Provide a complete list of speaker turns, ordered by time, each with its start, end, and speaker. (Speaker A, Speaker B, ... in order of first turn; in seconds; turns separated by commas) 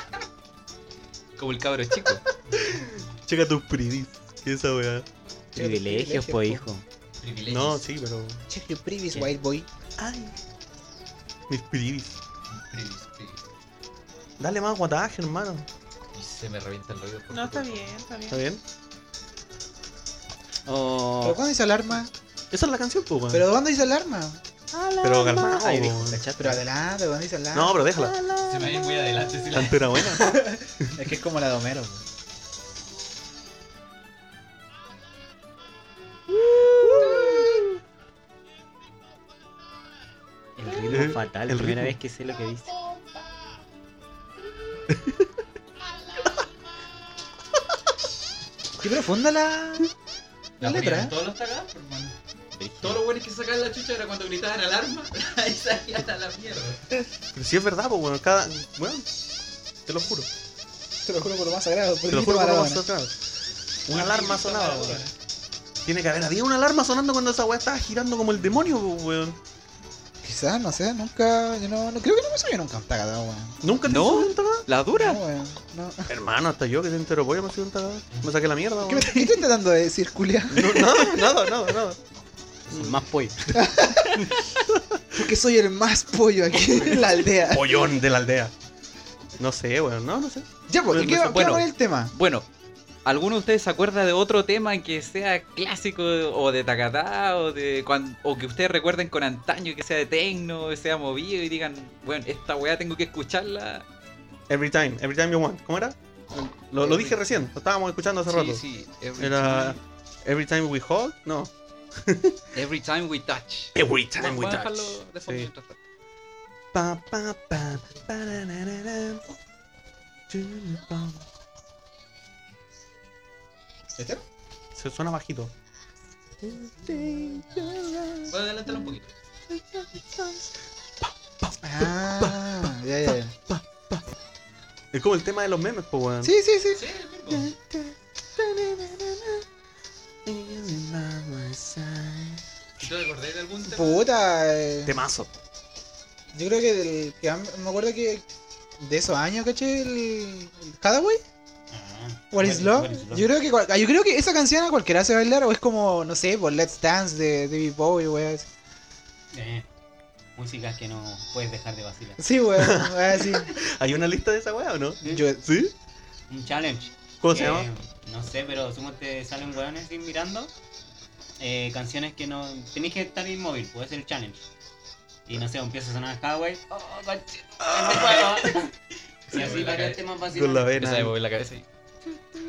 Speaker A: 1.4-2.2, Speaker B: 2.5-3.0, Speaker C: 2.6-5.0, Speaker D: 5.5-6.7, Speaker B: 5.5-6.8, Speaker A: 7.2-7.8, Speaker C: 7.5-8.4, Speaker D: 8.5-9.7, Speaker C: 10.0-10.3, Speaker C: 11.5-12.2, Speaker A: 12.5-13.4, Speaker C: 14.4-15.7, Speaker A: 16.1-17.9, Speaker E: 17.3-18.4, Speaker C: 18.3-18.6, Speaker B: 20.6-21.4, Speaker D: 21.2-22.1, Speaker C: 22.5-23.4, Speaker D: 23.3-24.4, Speaker B: 24.7-26.6, Speaker C: 25.0-26.2, Speaker E: 25.2-25.5, Speaker D: 26.4-27.8, Speaker C: 27.5-28.2, Speaker E: 28.3-28.8, Speaker A: 28.4-30.1, Speaker C: 29.5-31.0, Speaker D: 30.2-32.0, Speaker C: 36.7-37.7, Speaker B: 40.6-42.8, Speaker C: 40.9-42.0, Speaker C: 44.9-45.3, Speaker D: 48.8-49.9, Speaker A: 50.6-52.1, Speaker D: 50.6-51.1, Speaker B: 52.5-53.0, Speaker A: 52.8-56.8, Speaker C: 57.3-59.0, Speaker C: 59.9-60.3, Speaker D: 61.0-62.8, Speaker C: 62.1-63.1, Speaker C: 63.9-65.1, Speaker A: 63.9-65.1, Speaker C: 65.8-69.4, Speaker D: 70.2-73.6, Speaker C: 73.6-74.7, Speaker A: 73.8-75.2, Speaker D: 74.9-76.1, Speaker C: 76.1-79.4, Speaker D: 78.8-81.3, Speaker C: 80.5-82.0, Speaker B: 82.7-83.4, Speaker C: 82.7-83.6, Speaker D: 83.5-84.3, Speaker C: 84.7-85.0, Speaker D: 85.1-87.8, Speaker C: 87.4-88.5, Speaker C: 89.4-91.2, Speaker D: 90.7-92.1, Speaker A: 91.0-92.5, Speaker A: 93.0-103.8, Speaker C: 104.5-108.6, Speaker A: 106.8-107.2, Speaker A: 108.3-109.8, Speaker C: 109.2-112.4, Speaker A: 112.5-115.8, Speaker C: 113.7-115.5, Speaker C: 116.7-119.3, Speaker C: 120.3-121.2, Speaker D: 124.0-124.2, Speaker C: 124.7-125.5, Speaker C: 126.4-128.3, Speaker A: 128.3-129.1, Speaker C: 129.5-130.5, Speaker C: 131.0-134.0, Speaker D: 131.6-133.3, Speaker C: 134.9-136.3, Speaker D: 136.2-136.8, Speaker A: 136.7-137.5, Speaker C: 137.3-139.4, Speaker C: 140.2-142.4, Speaker A: 142.8-144.0, Speaker D: 143.7-144.9, Speaker C: 144.8-145.3, Speaker D: 146.3-148.2, Speaker D: 148.8-151.2, Speaker B: 151.7-153.3, Speaker D: 152.3-158.5, Speaker B: 159.3-159.7, Speaker B: 160.3-162.2, Speaker D: 162.2-163.5, Speaker C: 162.6-165.7, Speaker D: 165.0-165.4, Speaker B: 166.3-170.5, Speaker C: 167.2-167.7, Speaker B: 171.4-174.4, Speaker B: 175.3-178.7, Speaker C: 177.6-178.5, Speaker B: 179.3-180.7, Speaker A: 179.3-180.0, Speaker C: 180.3-181.1, Speaker A: 180.7-181.7